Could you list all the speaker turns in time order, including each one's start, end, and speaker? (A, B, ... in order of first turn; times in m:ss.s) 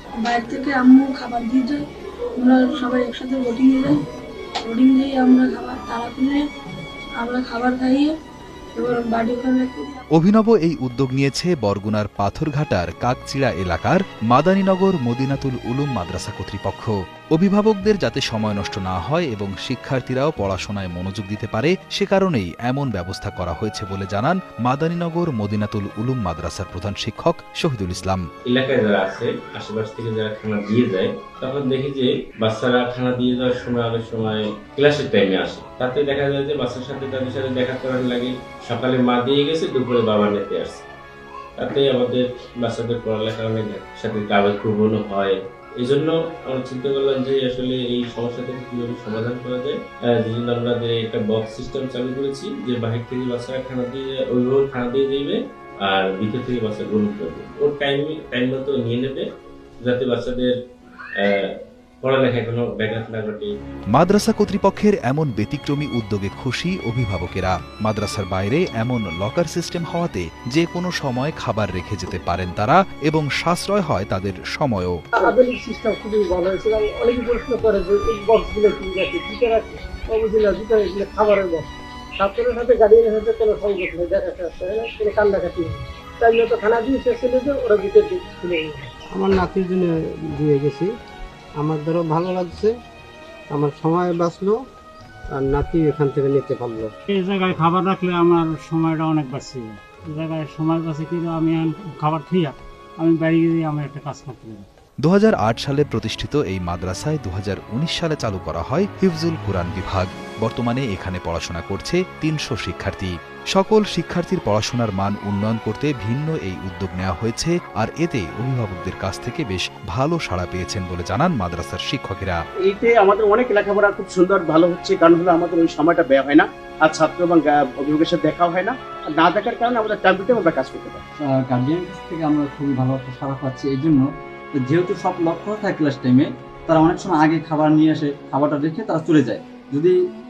0:00.3-0:01.8 A
0:02.4-0:03.9 A
0:04.7-0:06.4 A
0:07.2-0:08.1 A
0:08.8-0:09.9 A
0:10.2-0:28.2 B
0:28.5-0:40.8 C
0:41.6-0:59.2 C
0:59.8-1:00.5 C
1:01.2-1:01.5 C
1:02.0-1:03.5 C
1:04.0-1:15.0 B
1:15.2-1:28.9 D
1:29.1-1:30.9 E
1:31.6-1:32.8 E
1:33.5-1:34.6 E
1:35.3-1:36.9 E
1:37.1-1:44.7 F
1:45.0-2:02.4 B
2:02.7-2:11.0 G
2:11.2-2:20.0 H